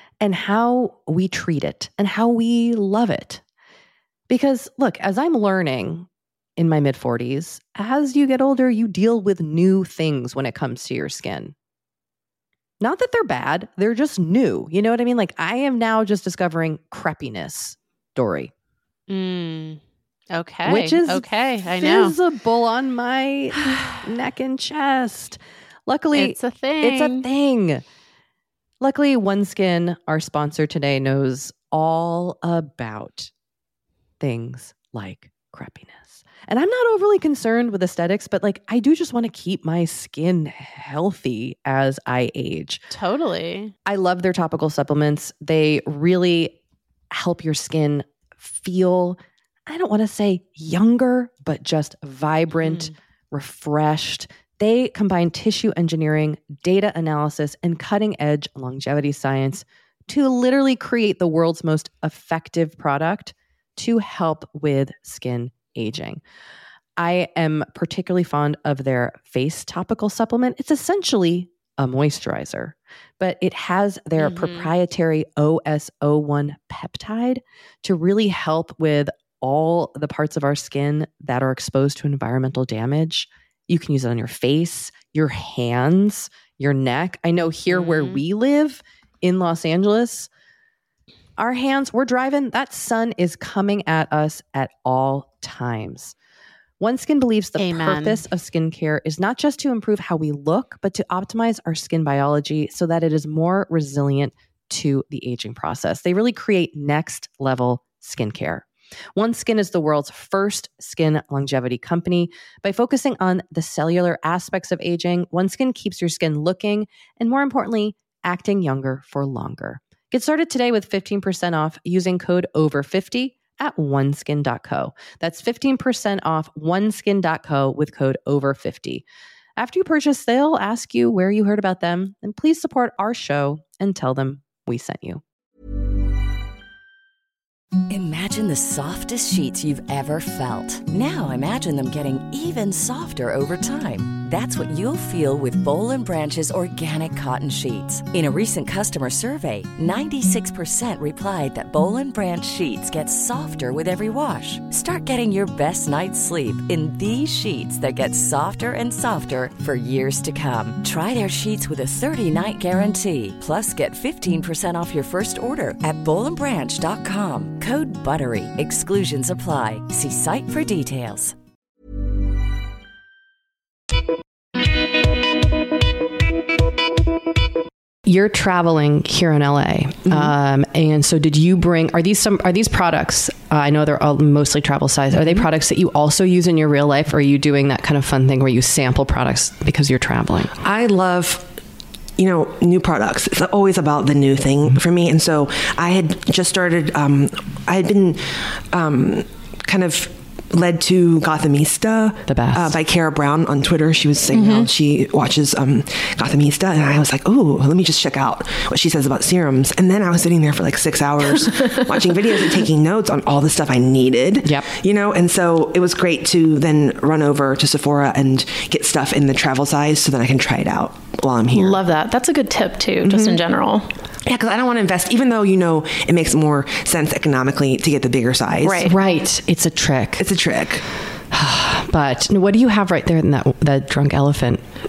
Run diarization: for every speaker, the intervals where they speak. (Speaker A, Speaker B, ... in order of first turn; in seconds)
Speaker A: 0.2-3.4, 4.3-11.5, 12.8-18.5, 20.6-27.8, 28.8-33.3, 34.2-42.9, 43.9-46.5, 47.1-66.2, 67.0-90.3, 91.4-96.1, 96.8-129.0, 129.6-135.2, 178.0-190.5, 202.3-202.7, 214.4-214.7, 228.8-230.2, 231.3-234.6
Speaker B: 19.1-22.1, 26.1-27.2, 42.9-43.7, 52.6-52.9, 74.2-74.7, 87.7-88.2, 97.5-98.2
Speaker C: 137.9-171.3
Speaker D: 180.1-180.3, 185.2-185.4, 190.6-191.5, 192.2-221.8, 223.0-223.4, 224.2-228.9, 230.2-230.8
Speaker E: 204.3-204.7, 211.4-212.2, 221.5-223.9, 228.6-228.9